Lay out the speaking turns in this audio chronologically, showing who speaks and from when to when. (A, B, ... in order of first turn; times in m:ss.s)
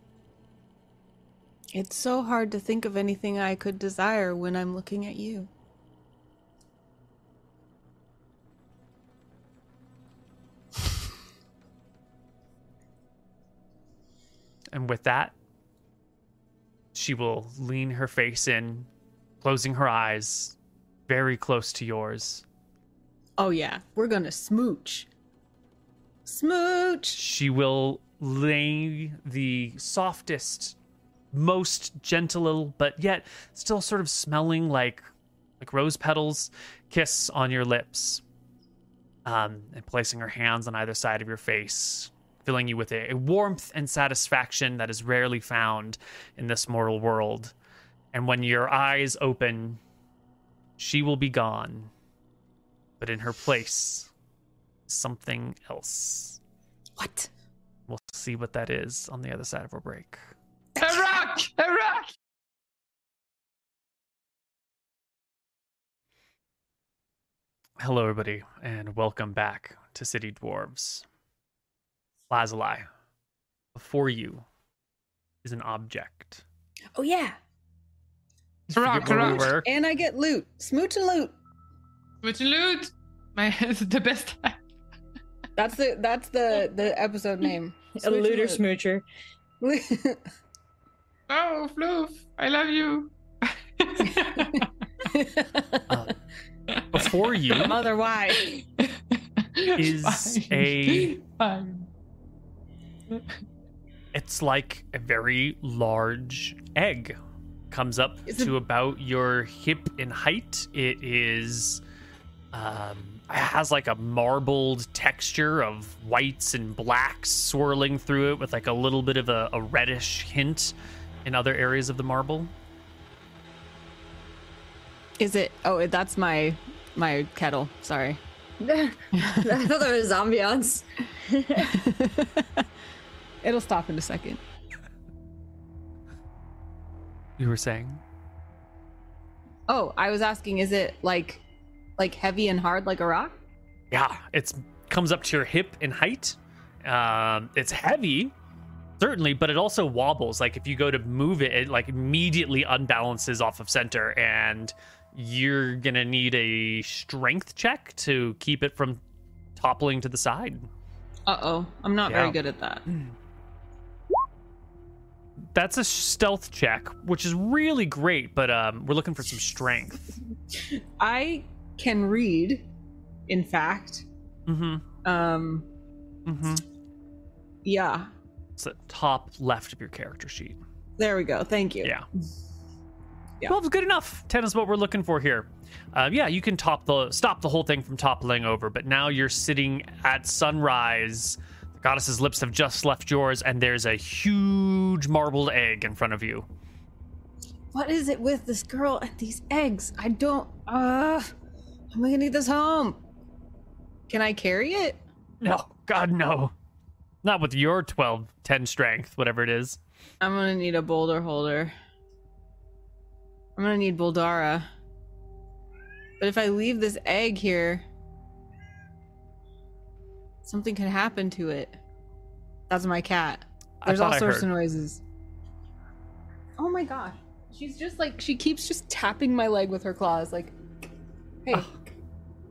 0:01.7-0:05.5 A
0:14.7-0:15.4 B
0:16.9-0:18.9 B
0:19.4-0:20.6 B
0:21.1-0:22.4 B
0:23.4-0:25.1 A
0:26.2-0:27.2 A
0:27.2-0:30.8 B
0:31.3-0:35.0 B
0:35.6-0:38.2 B
0:39.3-0:47.5 B
0:48.1-0:49.8 B
0:50.8-0:51.9 B
0:53.0-0:54.1 B
0:54.9-0:56.4 B
0:57.0-0:57.3 A
0:57.9-1:00.2 B
1:00.8-1:02.1 C
1:07.8-1:11.1 B
1:12.3-1:12.9 B
1:13.8-1:14.5 B
1:15.4-1:16.4 B
1:17.0-1:17.4 A
1:18.7-1:19.7 B
1:18.8-1:19.6 C
1:19.0-1:21.3 A
1:22.2-1:24.6 C
1:25.6-1:28.6 A
1:28.0-1:29.0 D
1:29.6-1:30.3 A
1:31.3-1:34.7 C
1:34.1-1:35.9 A
1:35.9-1:36.2 B
1:36.8-1:37.7 C
1:36.9-1:37.7 B
1:37.6-1:38.5 A
1:38.4-1:41.9 C
1:39.8-1:41.2 B
1:44.1-1:47.2 B
1:47.7-1:51.8 B
1:48.3-1:48.6 A
1:52.5-2:00.7 B
2:01.2-2:02.5 B
2:05.2-2:08.2 A
2:08.6-2:11.7 D
2:09.2-2:09.5 A
2:11.6-2:12.6 A
2:13.4-2:14.4 A
2:17.4-2:18.0 B
2:19.7-2:21.4 A
2:22.0-2:23.4 A
2:23.9-2:28.3 B
2:29.0-2:39.0 B
2:39.6-2:40.7 B
2:41.3-2:42.9 A
2:42.0-2:42.4 B
2:45.6-2:50.2 B
2:50.6-2:52.7 A
2:53.3-2:54.1 A
2:54.5-2:54.8 B
2:55.0-2:55.7 A
2:56.3-2:56.6 B
2:57.6-2:58.1 A
2:58.6-3:00.6 B
3:01.0-3:01.9 A
3:03.5-3:16.5 B
3:17.7-3:21.3 A
3:21.9-3:23.0 A
3:24.1-3:25.0 A
3:25.4-3:26.5 B
3:27.2-3:29.8 B
3:30.2-3:31.7 A
3:33.6-3:34.7 A
3:36.2-3:37.8 A
3:40.4-3:41.8 A
3:42.7-3:45.0 A
3:43.8-3:44.5 B
3:46.6-3:50.5 A
3:51.4-3:51.9 A